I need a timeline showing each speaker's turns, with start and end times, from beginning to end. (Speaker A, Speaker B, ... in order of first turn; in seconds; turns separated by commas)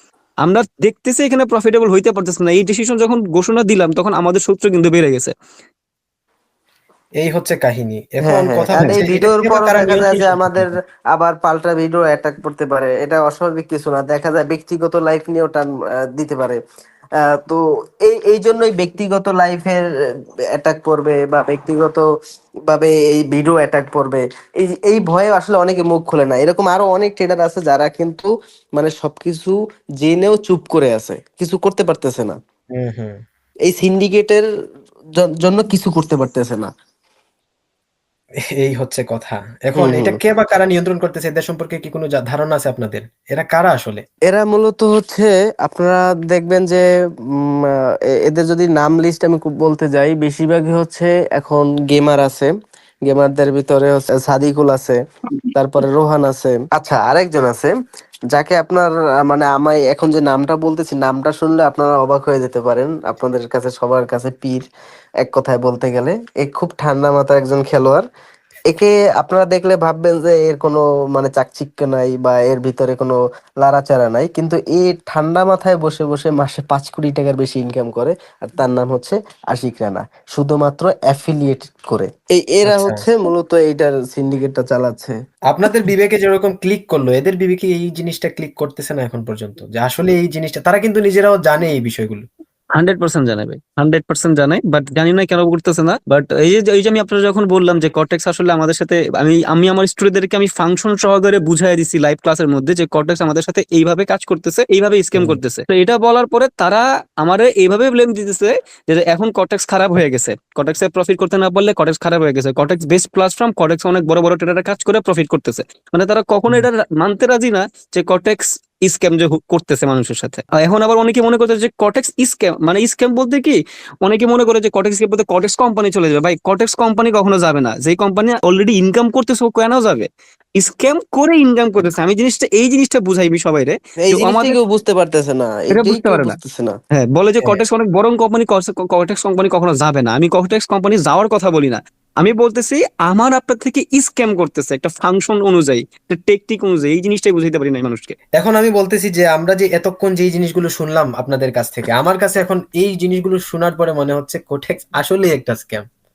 Speaker A: 0.4-5.3, Speaker B: 7.2-10.7, Speaker C: 8.2-16.6, Speaker C: 17.2-19.8, Speaker C: 20.5-22.1, Speaker C: 22.7-32.4, Speaker B: 32.7-33.2, Speaker C: 33.7-34.4, Speaker C: 35.2-36.7, Speaker B: 38.5-44.0, Speaker C: 39.8-40.2, Speaker C: 44.3-52.5, Speaker C: 53.0-55.0, Speaker C: 55.5-57.7, Speaker C: 58.3-64.7, Speaker C: 65.2-68.1, Speaker C: 68.7-85.2, Speaker B: 82.7-83.0, Speaker B: 85.5-92.2, Speaker A: 92.8-134.6, Speaker B: 105.2-105.4, Speaker C: 134.0-136.8, Speaker A: 135.7-136.4, Speaker A: 136.9-148.2, Speaker B: 148.4-155.9